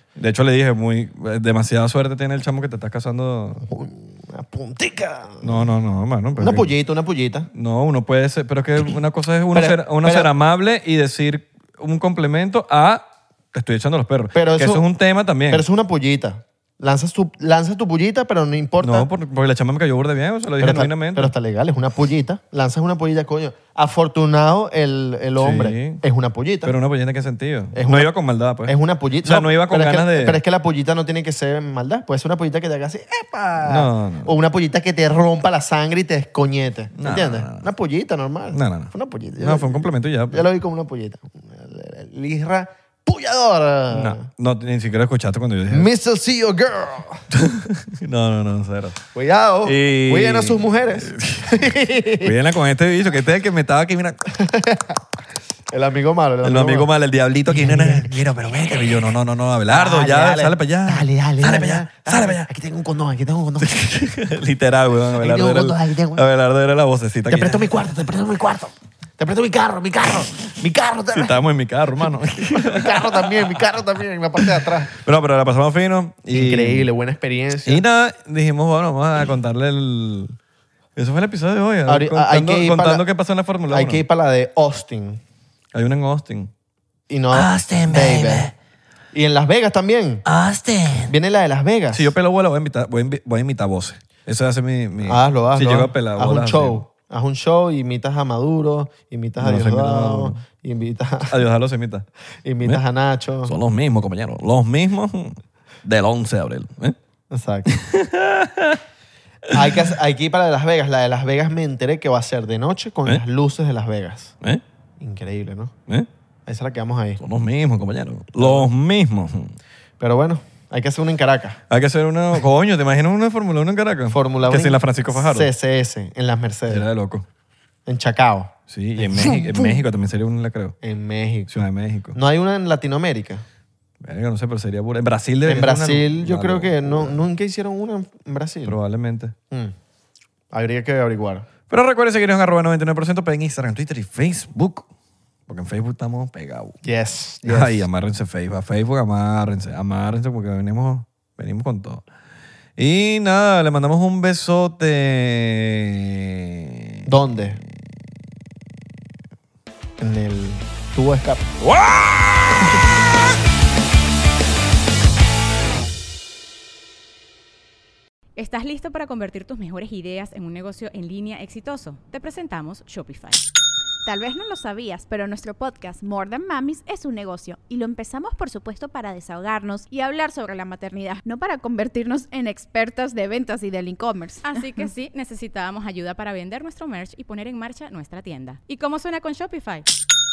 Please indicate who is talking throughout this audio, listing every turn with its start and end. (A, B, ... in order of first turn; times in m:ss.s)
0:00.2-0:03.6 A
0:03.6-0:05.6 B
0:05.4-0:06.7 A
0:06.4-0:07.5 B
0:07.5-0:15.6 A
0:09.5-0:10.3 B
0:14.3-0:14.8 B
0:15.5-0:19.1 B
0:18.8-0:21.3 A
0:20.6-0:26.7 B
0:25.4-0:26.0 A
0:26.6-0:30.4 A
0:27.7-0:28.1 B
0:28.7-0:44.2 B
0:33.6-0:34.3 A
0:37.0-0:37.6 A
0:38.5-0:40.4 A
0:43.9-0:45.9 A
0:45.7-0:47.2 B
0:47.3-0:49.0 A
0:49.1-0:52.3 B
0:49.6-0:51.5 A
0:52.2-0:54.2 A
0:54.3-0:55.0 B
0:55.7-0:56.9 B
0:56.4-1:02.5 A
0:57.5-0:58.2 B
0:59.7-1:03.9 B
1:03.6-1:07.7 A
1:05.2-1:06.2 B
1:07.3-1:11.3 B
1:11.1-1:13.4 A
1:12.5-1:14.9 B
1:14.4-1:16.9 A
1:16.3-1:17.8 B
1:17.6-1:20.4 A
1:21.0-1:24.0 A
1:21.9-1:23.0 B
1:23.7-1:25.2 B
1:25.7-1:26.5 A
1:27.1-1:28.5 B
1:27.3-1:28.5 C
1:29.1-1:30.2 B
1:30.3-1:31.1 C
1:31.0-1:32.1 B
1:31.9-1:36.8 A
1:35.0-1:41.3 B
1:39.4-1:40.4 A
1:41.2-1:42.0 A
1:42.4-1:43.5 B
1:43.4-1:47.0 A
1:47.3-1:47.7 B
1:47.6-1:48.8 A
1:49.5-1:49.8 A
1:49.5-1:54.3 B
1:55.0-1:55.7 B
1:56.4-1:57.2 B
1:57.2-1:59.6 A
1:58.4-1:58.7 B
2:00.0-2:01.6 B
2:01.7-2:05.5 A
2:04.1-2:06.8 B
2:06.7-2:07.2 A
2:07.8-2:09.8 B
2:08.7-2:10.8 A
2:10.8-2:11.5 B
2:11.5-2:12.2 A
2:12.1-2:13.4 B
2:14.0-2:17.2 A
2:15.4-2:18.8 B
2:18.6-2:19.3 A
2:20.5-2:21.5 B
2:21.7-2:24.9 A
2:25.5-2:26.8 A
2:26.8-2:27.9 B
2:27.4-2:32.0 A
2:32.8-2:36.8 A
2:37.0-2:37.6 B
2:40.0-2:41.5 B
2:41.6-2:42.3 A
2:48.4-2:53.4 D
2:54.0-3:04.6 E
3:04.4-3:09.9 D